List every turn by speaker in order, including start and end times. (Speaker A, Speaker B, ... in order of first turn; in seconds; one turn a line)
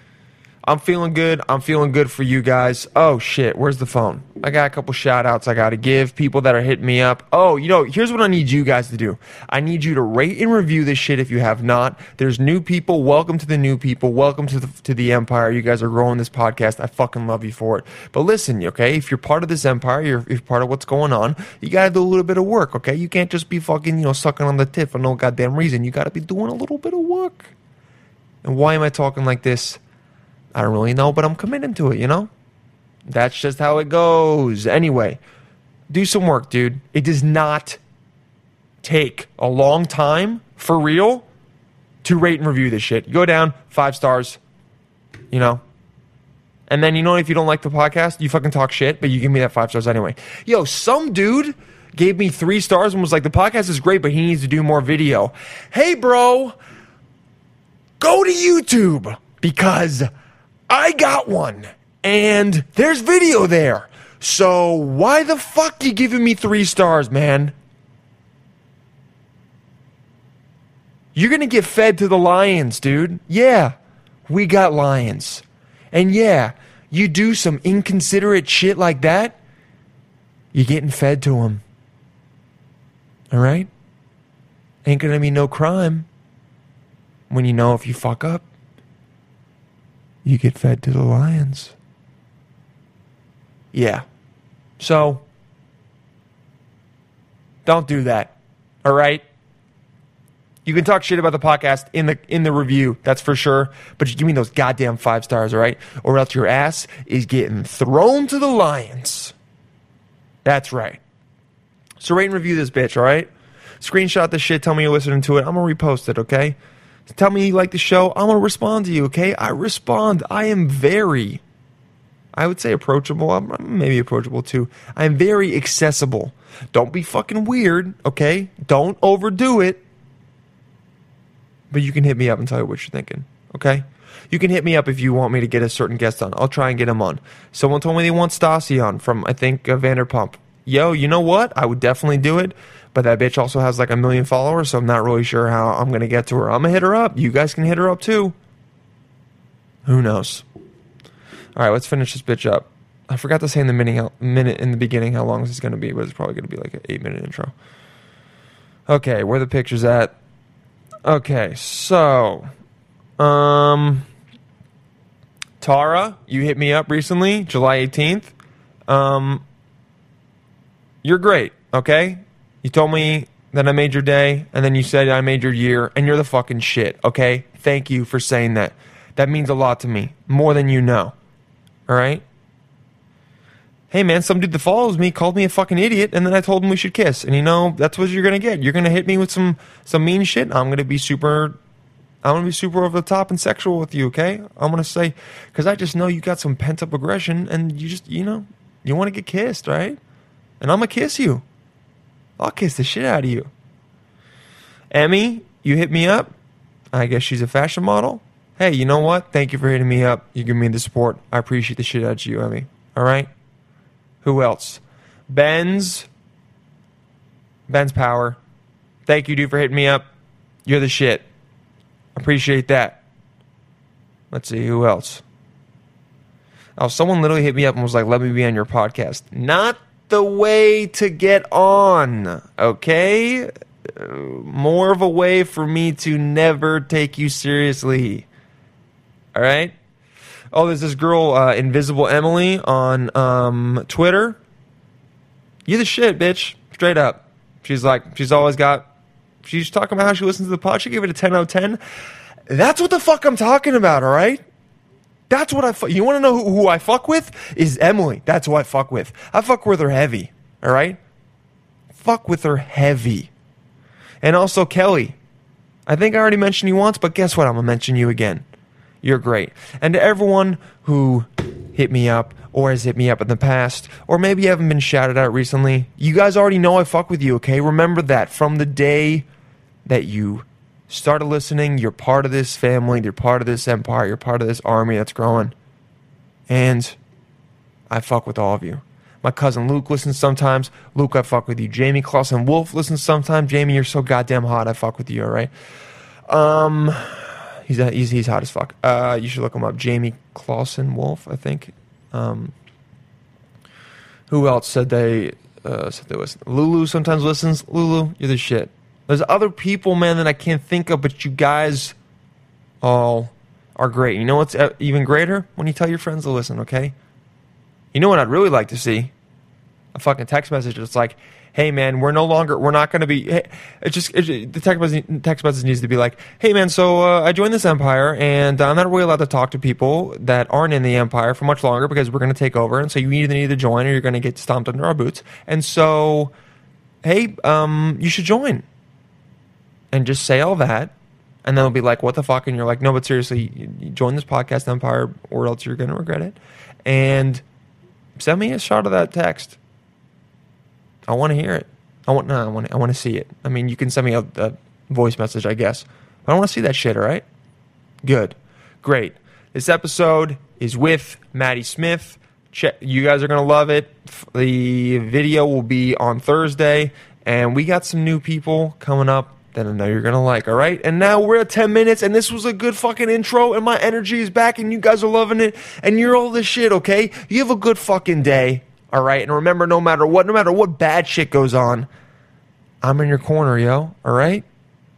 Speaker A: 0.6-27.5
Speaker A: 28.4-29.8
Speaker A: 30.5-32.3
Speaker A: 33.1-35.2
Speaker A: 35.9-37.8
Speaker A: 38.8-41.2
Speaker A: 42.0-44.4
Speaker A: 45.3-45.6
Speaker A: 46.7-56.5
Speaker A: 58.0-60.1
Speaker A: 60.7-67.5
Speaker A: 71.1-73.7
Speaker A: 74.3-79.3
Speaker A: 80.5-81.6
Speaker A: 83.3-83.7
Speaker A: 84.8-86.1
Speaker A: 87.3-88.4
Speaker A: 90.2-91.7
Speaker A: 93.7-94.0
Speaker A: 94.8-95.2
Speaker A: 97.7-98.3
Speaker A: 98.8-99.2
Speaker A: 100.6-109.3
Speaker A: 110.4-111.0
Speaker A: 112.0-113.3
Speaker A: 113.8-116.5
Speaker A: 117.1-121.4
Speaker A: 122.3-129.8
Speaker A: 131.7-148.3
Speaker A: 149.8-150.4
Speaker A: 151.6-157.5
Speaker A: 158.9-160.1
Speaker A: 161.0-162.5
Speaker A: 163.2-164.1
Speaker A: 165.6-168.3
Speaker A: 168.9-169.4
Speaker A: 171.0-181.1
Speaker A: 181.9-182.2
Speaker A: 183.9-191.6
Speaker A: 192.2-200.0
Speaker A: 200.6-201.4
Speaker A: 202.4-203.5
Speaker A: 204.9-206.3
Speaker A: 206.9-213.3
Speaker A: 214.2-216.1
Speaker A: 217.7-218.4
Speaker A: 219.1-220.1
Speaker A: 220.7-221.2
Speaker A: 222.1-223.0
Speaker A: 224.3-225.2
Speaker A: 226.8-238.2
Speaker A: 239.3-239.7
Speaker A: 240.5-244.4
Speaker A: 245.7-248.8
Speaker A: 249.4-251.8
Speaker A: 252.5-254.4
Speaker A: 255.3-261.0
Speaker A: 261.9-263.3
Speaker A: 264.2-265.1
Speaker A: 265.9-268.4
Speaker A: 269.0-279.3
Speaker A: 279.9-285.5
Speaker A: 286.5-287.0
Speaker A: 287.9-295.5
Speaker A: 296.3-302.5
Speaker A: 304.3-311.9
Speaker A: 312.8-316.9
Speaker A: 317.9-319.1
Speaker A: 319.9-336.3
Speaker A: 337.0-338.6
Speaker A: 339.9-340.9
Speaker A: 341.4-347.4
Speaker A: 348.2-349.6
Speaker A: 351.1-357.2
Speaker A: 358.0-381.9
Speaker A: 382.8-384.4